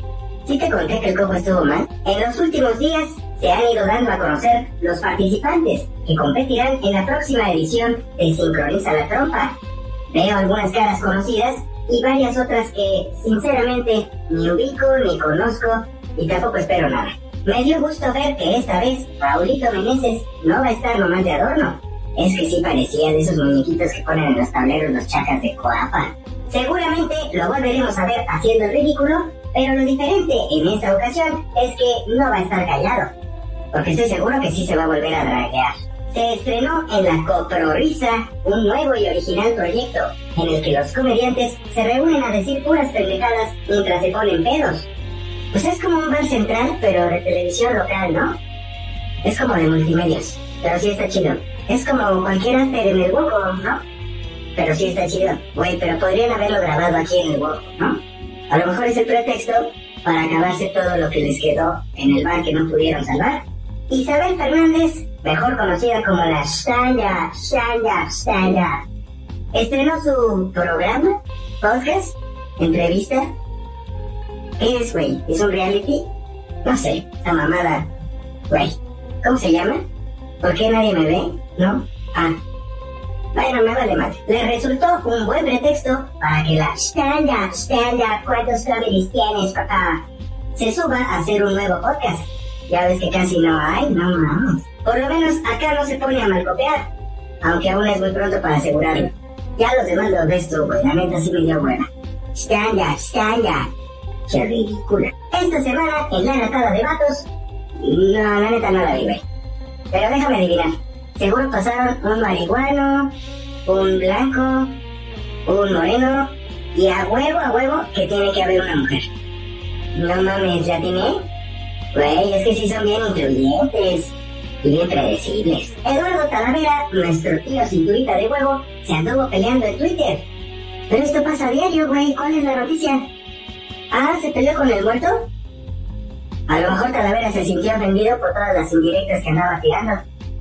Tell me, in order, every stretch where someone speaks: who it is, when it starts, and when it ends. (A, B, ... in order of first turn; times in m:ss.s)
0:00.4-0:09.6 A
0:10.1-0:33.1 A
0:33.7-0:44.9 A
0:45.5-0:48.4 A
0:49.2-0:53.8 A
0:54.5-0:58.0 A
0:58.5-1:08.8 A
1:09.5-1:13.3 A
1:14.6-1:16.1 A
1:16.6-1:17.9 A
1:18.5-1:19.8 A
1:20.4-1:22.4 A
1:23.3-1:30.0 A
1:30.6-1:36.9 A
1:37.4-1:43.7 A
1:44.3-1:49.2 A
1:49.9-1:53.1 A
1:53.6-1:54.8 A
1:55.4-1:59.1 A
1:59.9-2:01.2 A
2:01.9-2:10.2 A
2:10.9-2:13.0 A
2:13.9-2:15.3 A
2:16.5-2:20.0 A